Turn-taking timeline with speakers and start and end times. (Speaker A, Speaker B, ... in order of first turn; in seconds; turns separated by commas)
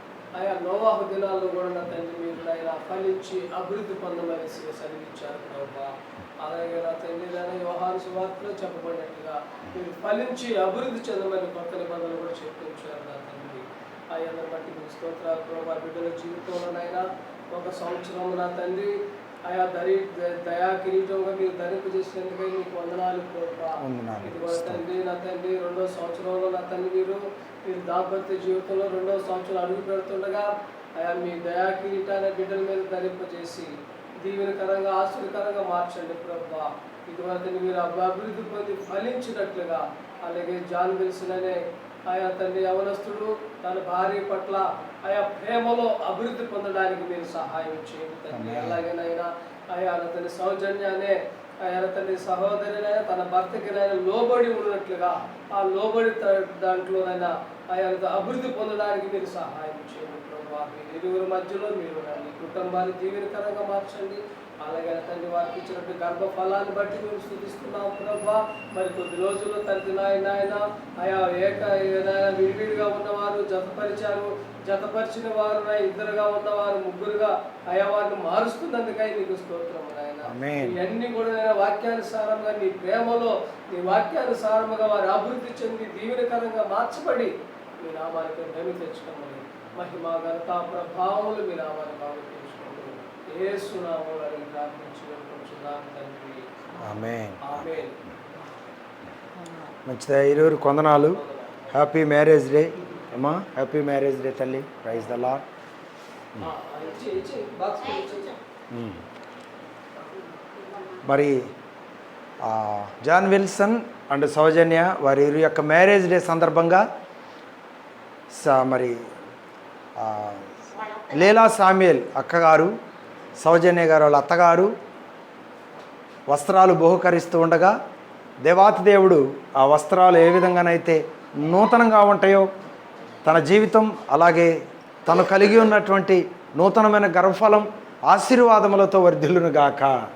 Speaker A: 0.3-96.5, Speaker B: 23.8-24.9, Speaker B: 48.3-48.8, Speaker B: 80.3-80.8, Speaker B: 96.8-97.5, Speaker A: 97.4-98.0, Speaker B: 99.8-101.2, Speaker A: 101.1-101.7, Speaker B: 101.7-105.4, Speaker A: 106.4-108.4, Speaker B: 108.7-109.0, Speaker B: 111.0-111.5, Speaker B: 112.4-116.8, Speaker B: 118.3-119.0, Speaker B: 120.0-122.7, Speaker B: 123.4-124.7, Speaker B: 126.3-127.8, Speaker B: 128.4-132.5, Speaker B: 133.2-140.0